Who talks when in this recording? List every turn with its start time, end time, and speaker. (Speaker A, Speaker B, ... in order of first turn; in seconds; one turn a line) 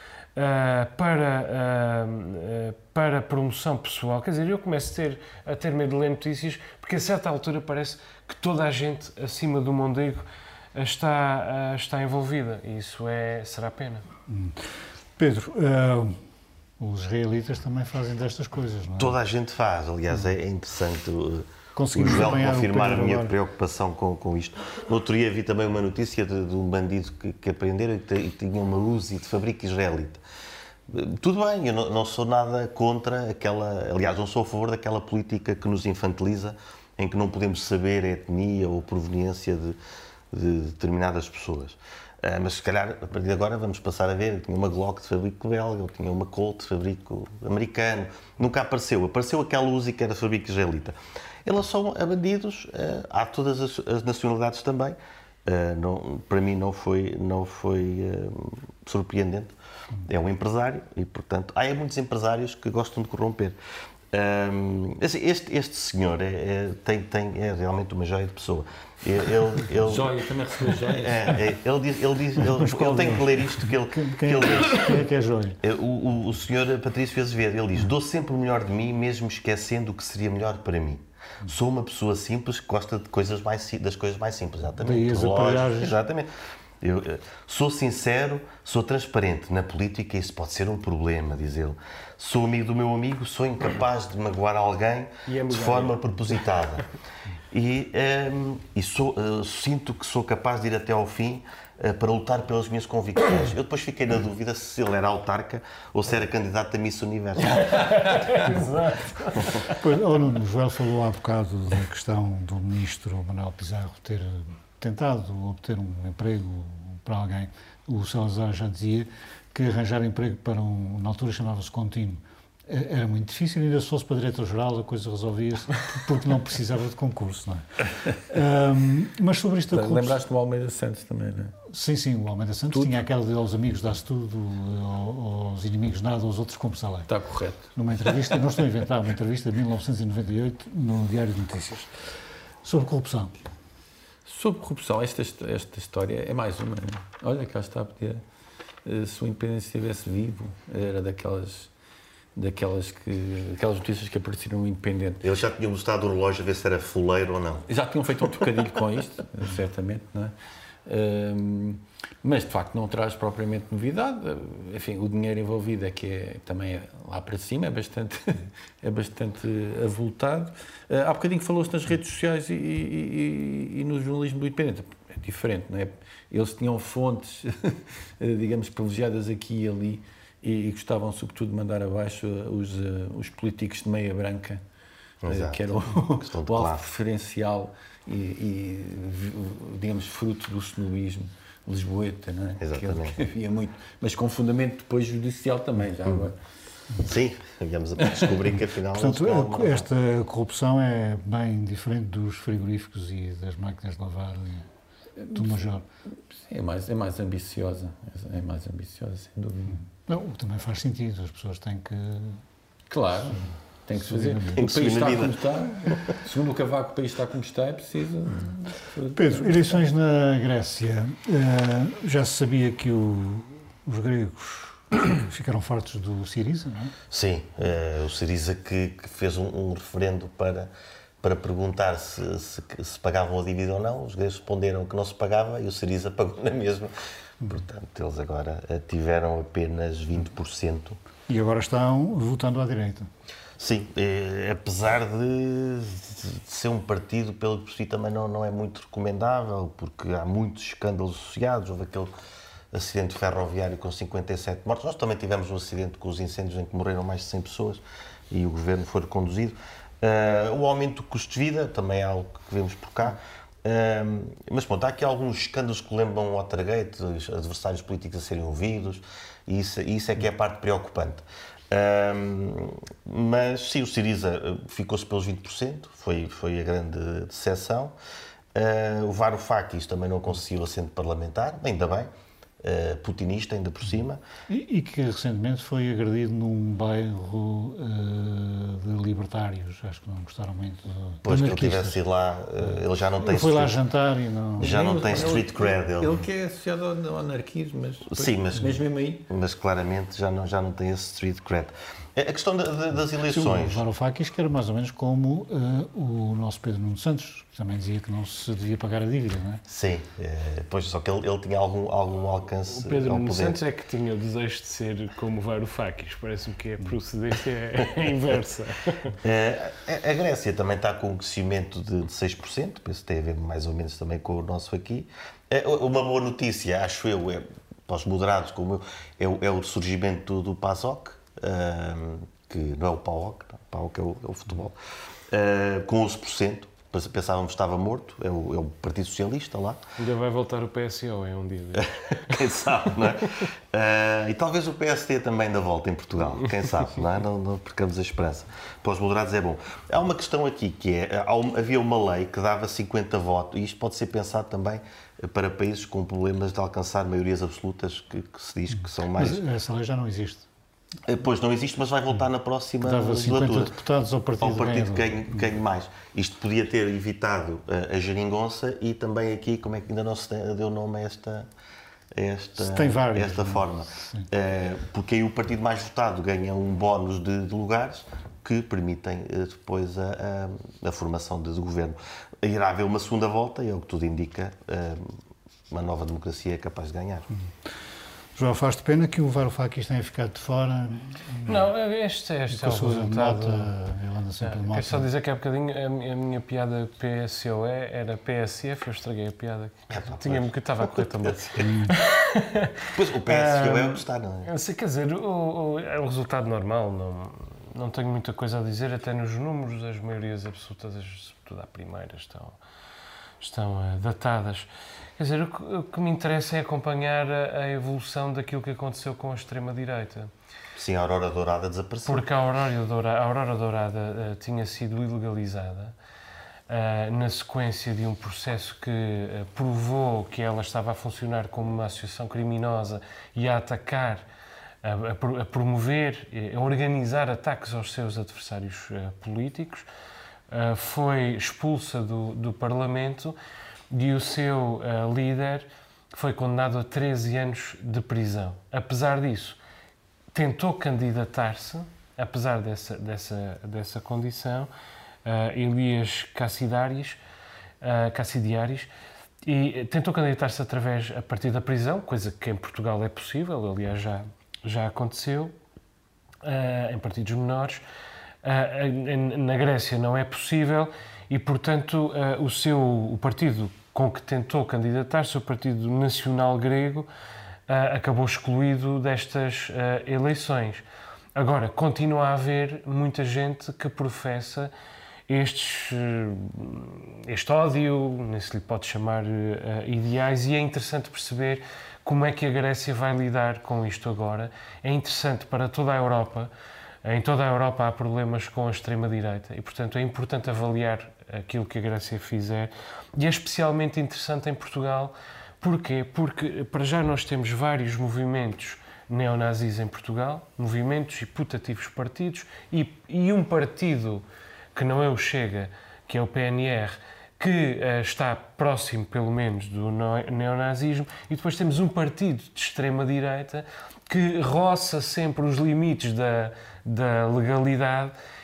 Speaker A: 0.3-14.0
Speaker B: 14.3-16.2
Speaker B: 16.8-19.2
Speaker C: 19.0-30.2
Speaker B: 21.8-23.3
Speaker C: 30.9-39.8
Speaker C: 40.3-63.5
Speaker C: 64.1-70.2
Speaker D: 69.8-71.4
Speaker C: 70.8-75.0
Speaker B: 72.5-75.6
Speaker C: 75.6-86.3
Speaker B: 84.8-86.0
Speaker C: 86.8-96.9
Speaker A: 95.2-96.0
Speaker C: 97.5-108.4
Speaker A: 107.6-109.7
Speaker B: 109.7-130.2
Speaker D: 129.7-131.6
Speaker B: 131.7-137.1
Speaker D: 132.7-133.0
Speaker D: 137.1-138.5
Speaker B: 137.7-141.9
Speaker B: 142.6-143.4
Speaker D: 144.2-148.2
Speaker D: 148.8-151.7
Speaker D: 152.3-155.2
Speaker C: 155.2-157.7
Speaker D: 157.7-160.3
Speaker D: 160.8-184.6
Speaker C: 185.2-186.8
Speaker D: 185.3-196.4
Speaker C: 192.6-193.2
Speaker C: 197.0-199.9
Speaker B: 198.9-204.7
Speaker D: 205.2-205.5
Speaker B: 205.3-205.8
Speaker D: 206.3-209.9
Speaker B: 210.1-212.4
Speaker D: 212.9-219.7
Speaker B: 213.9-214.6
Speaker C: 214.5-216.1
Speaker B: 219.1-226.9
Speaker C: 227.1-230.7
Speaker C: 231.2-241.0
Speaker B: 241.3-243.1
Speaker C: 243.6-252.1
Speaker C: 252.7-277.9
Speaker C: 278.5-282.1
Speaker C: 282.6-284.2
Speaker B: 284.5-292.0
Speaker C: 291.2-293.8
Speaker B: 292.6-294.8
Speaker C: 294.6-296.2
Speaker D: 294.6-299.2
Speaker C: 298.1-303.8
Speaker B: 303.3-309.6
Speaker C: 309.7-313.6
Speaker A: 312.7-319.1
Speaker C: 319.2-334.8
Speaker C: 335.3-339.8
Speaker A: 340.0-342.4
Speaker C: 341.8-359.4
Speaker B: 359.1-360.4
Speaker C: 361.1-363.7
Speaker B: 362.8-365.2
Speaker C: 364.4-371.5
Speaker C: 372.1-385.2
Speaker B: 372.6-374.3
Speaker C: 385.7-387.3
Speaker B: 387.3-387.7
Speaker B: 388.4-391.6
Speaker A: 391.4-393.7
Speaker B: 392.5-395.1
Speaker A: 394.4-412.6
Speaker C: 399.9-401.8
Speaker B: 401.6-401.9
Speaker C: 402.9-404.5
Speaker A: 413.4-420.3
Speaker C: 420.8-422.3
Speaker A: 422.1-425.9
Speaker A: 426.7-434.3
Speaker A: 434.8-439.9
Speaker A: 440.5-443.4
Speaker A: 443.9-449.6
Speaker A: 450.3-454.7
Speaker A: 455.2-457.2
Speaker A: 457.8-458.9
Speaker A: 459.4-465.5
Speaker A: 466.4-467.8
Speaker A: 468.4-477.1
Speaker A: 477.7-480.8
Speaker A: 481.3-484.7
Speaker A: 485.3-496.5
Speaker A: 497.0-528.1